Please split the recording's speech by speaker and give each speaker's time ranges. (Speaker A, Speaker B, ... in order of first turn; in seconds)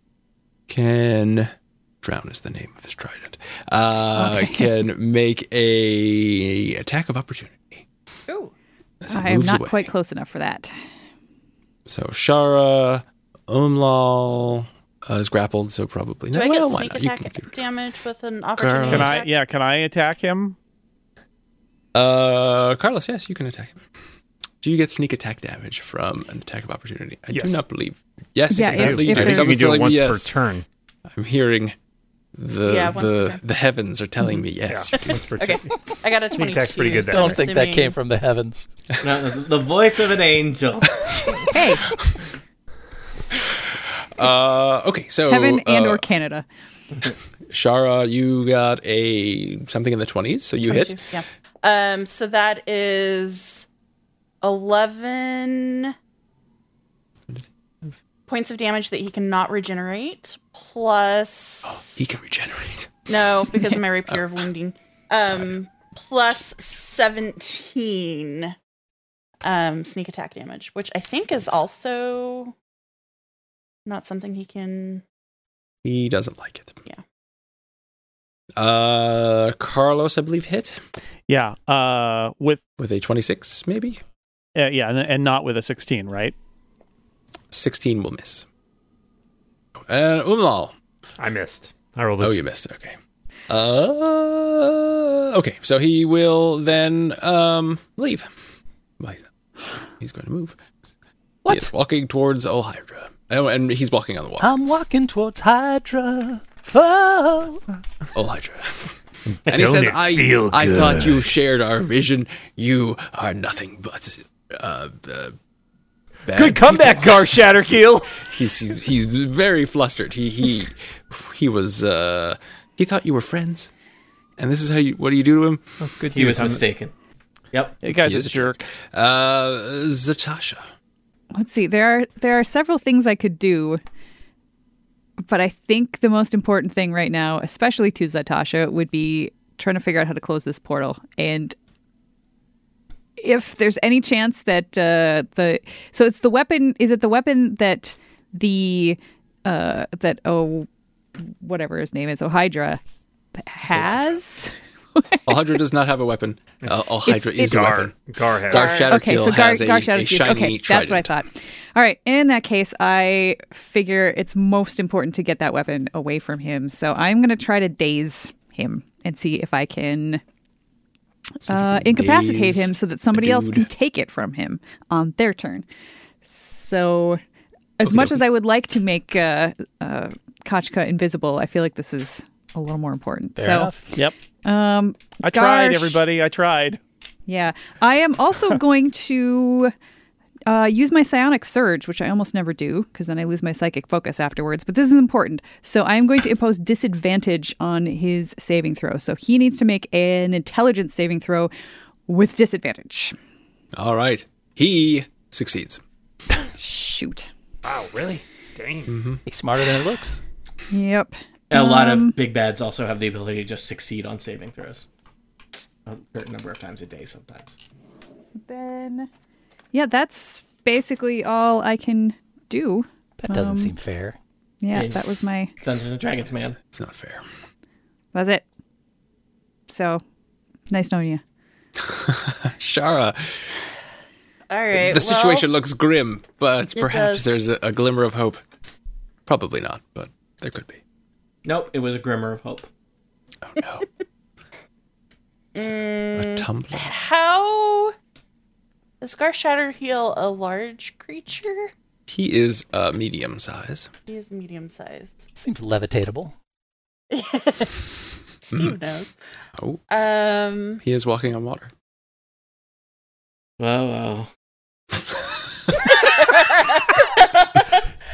Speaker A: 0.7-7.8, 9.0-9.9, 11.9-17.6, 18.6-19.2, 21.9-23.8, 24.6-30.3, 31.1-31.8, 32.3-35.4, 43.3-46.0, 47.5-51.0, 57.3-58.0, 61.6-63.0, 75.8-76.8, 78.6-80.8, 82.8-84.0, 87.5-88.5, 89.8-90.7, 92.2-93.0, 93.5-98.3, 99.0-99.3, 99.8-100.7, 101.5-104.5, 108.1-115.4, 116.2-117.4, 118.2-123.7, 124.4-125.6, 128.0-130.7, 153.7-154.2, 155.2-157.9, 158.5-161.2, 171.4-173.7, 177.8-178.2, 203.8-205.8, 208.9-209.2, 226.6-227.2, 231.8-233.7, 234.7-238.4, 239.3-240.8, 243.4-243.9, 245.6-246.9, 252.1-253.9, 260.8-261.7
Speaker B: 4.2-4.7, 9.1-10.7, 28.5-29.7, 41.5-41.9, 45.3-46.4, 131.3-133.8, 135.2-141.5, 143.2-150.7, 151.3-152.8, 153.4-155.3, 158.9-170.2, 171.5-175.6, 176.3-177.2, 177.8-183.7, 184.4-186.0, 187.3-189.7, 190.4-201.5, 202.1-203.1, 206.5-207.3, 210.7-212.2, 218.4-219.1, 219.7-223.7, 224.6-225.5, 228.1-228.4, 229.7-230.0, 230.7-231.2
Speaker C: 16.3-19.3, 32.6-33.4, 35.0-38.0, 50.7-53.7, 54.4-55.9, 58.3-62.0, 63.1-68.5, 69.4-72.5, 73.8-75.0, 158.5-158.9, 234.5-235.4, 236.8-237.3, 245.5-247.9, 249.0-251.7, 254.1-255.2, 257.1-257.9, 258.4-259.1, 259.9-260.8, 265.8-267.8
Speaker D: 18.9-20.6, 81.3-82.6, 84.5-86.3, 127.8-128.7, 185.2-186.8
Speaker E: 27.3-27.6, 28.6-30.6, 34.7-35.8, 36.3-37.5, 91.2-92.4, 109.2-111.3, 116.3-118.2, 125.8-126.6, 156.7-158.7, 207.6-208.9
Speaker F: 37.0-38.6, 104.4-107.8, 183.4-183.9, 209.3-210.2, 223.2-224.2, 255.3-256.3
Speaker G: 39.0-41.5, 126.1-126.9, 127.5-127.8, 211.5-214.8, 215.8-217.6, 224.7-226.6, 241.4-242.7, 263.6-264.3